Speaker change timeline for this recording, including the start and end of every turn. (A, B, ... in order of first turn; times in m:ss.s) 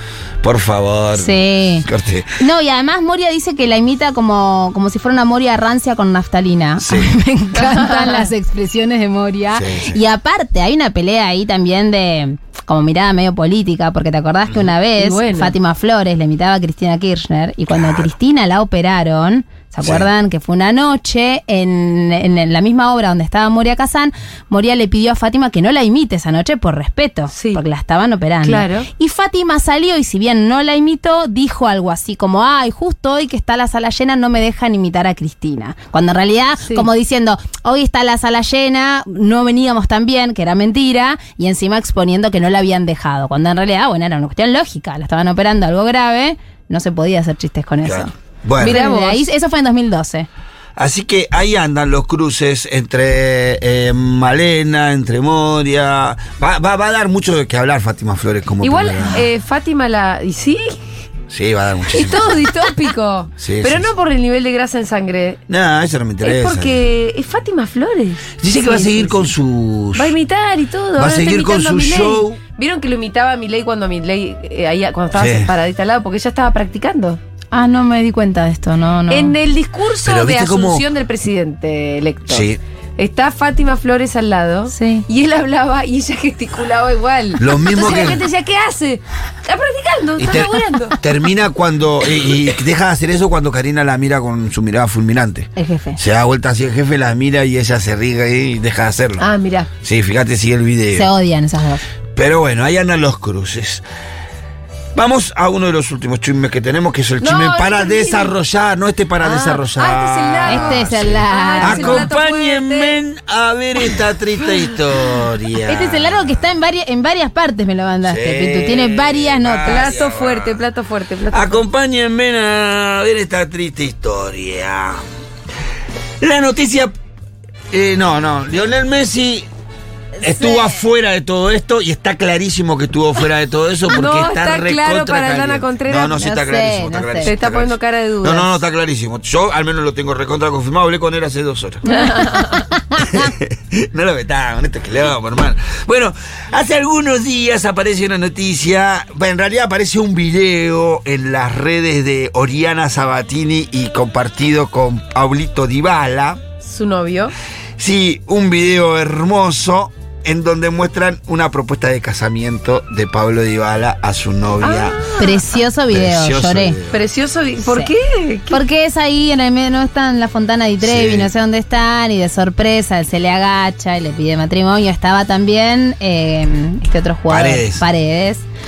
0:00.4-0:02.4 A
0:01.1-0:01.9 B
0:02.4-0:50.3 B
0:06.8-0:07.1 A
0:07.5-0:08.3 C
0:09.5-0:10.0 A
0:14.5-0:14.7 A
0:15.0-0:15.5 C
0:17.7-0:18.1 A
0:19.8-0:20.1 A
0:27.3-0:27.6 C
0:28.4-0:28.9 C
0:36.6-0:36.9 C
0:47.8-0:48.8 A
0:48.6-0:49.3 C
0:50.8-0:59.3 A
0:58.6-1:00.8 C
1:01.3-1:02.4 A
1:01.9-1:05.4 C
1:03.4-1:03.9 A
1:05.5-1:06.8 A
1:06.2-1:09.3 C
1:08.4-1:10.1 A
1:10.0-1:17.2 C
1:11.0-1:12.4 A
1:15.1-1:15.5 A
1:17.5-1:19.4 B
1:19.1-1:31.0 C
1:20.0-1:20.8 A
1:22.3-1:22.6 A
1:24.7-1:25.0 B
1:27.4-1:28.2 A
1:30.2-1:39.2 A
1:35.6-1:36.0 B
1:39.2-1:39.7 C
1:39.8-1:41.1 A
1:40.9-1:41.8 B
1:42.1-1:43.8 A
1:44.9-1:56.4 A
1:47.2-1:48.3 C
1:49.2-1:52.9 C
1:50.4-1:52.1 B
1:55.7-1:59.9 B
1:58.0-2:00.6 A
1:59.6-2:01.6 C
2:01.3-2:05.0 A
2:06.2-2:06.9 A
2:07.7-2:09.5 A
2:10.2-2:21.8 A
2:10.4-2:10.7 B
2:13.9-2:16.2 C
2:16.0-2:17.3 B
2:17.2-2:18.5 C
2:21.8-2:23.3 B
2:21.9-2:22.6 C
2:23.0-2:36.4 A
2:36.6-2:37.3 C
2:37.8-2:45.0 A
2:44.6-2:45.4 C
2:45.2-2:46.8 B
2:45.9-2:47.0 A
2:46.9-2:48.6 C
2:47.6-2:47.9 B
2:48.5-2:58.4 B
2:50.8-2:51.3 A
2:57.3-2:57.8 A